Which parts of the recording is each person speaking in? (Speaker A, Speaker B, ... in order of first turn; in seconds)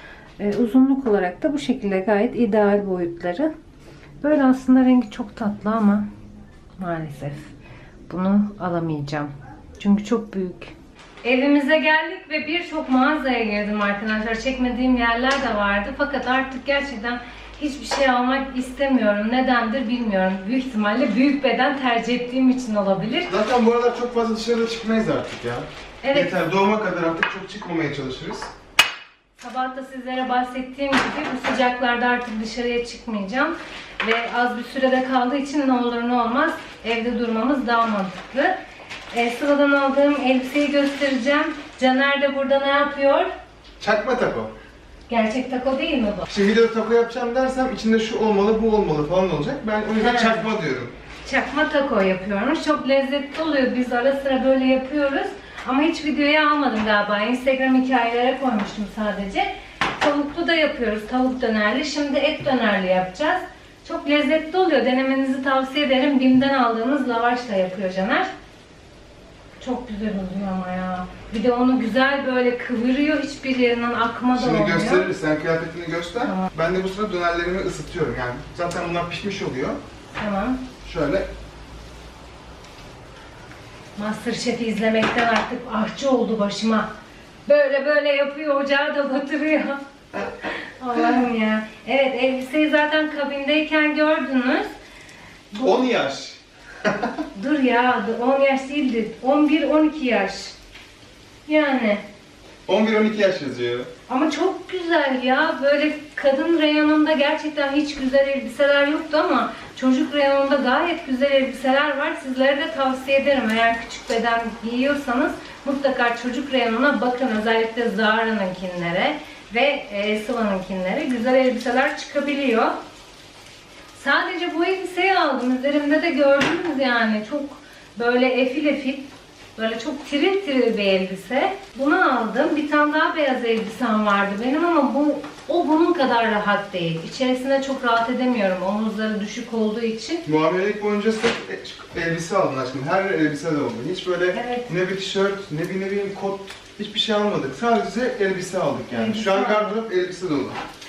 Speaker A: 0.4-3.5, 4.2-6.1, 6.8-7.5, 8.1-23.3, 26.0-26.4, 29.4-38.5, 39.1-43.3, 45.1-46.3, 50.0-50.5, 51.2-68.3, 69.6-75.1, 76.2-76.5, 80.2-80.6, 84.0-86.9, 87.5-89.8, 90.4-94.7, 95.5-95.9, 97.3-100.5, 101.5-102.0, 104.1-122.8, 123.9-140.2, 144.3-144.7, 148.9-149.7
Speaker B: 23.3-28.5, 43.8-44.5, 46.3-50.9, 74.3-79.8, 80.8-81.3, 95.6-97.1, 102.7-103.9, 140.3-150.6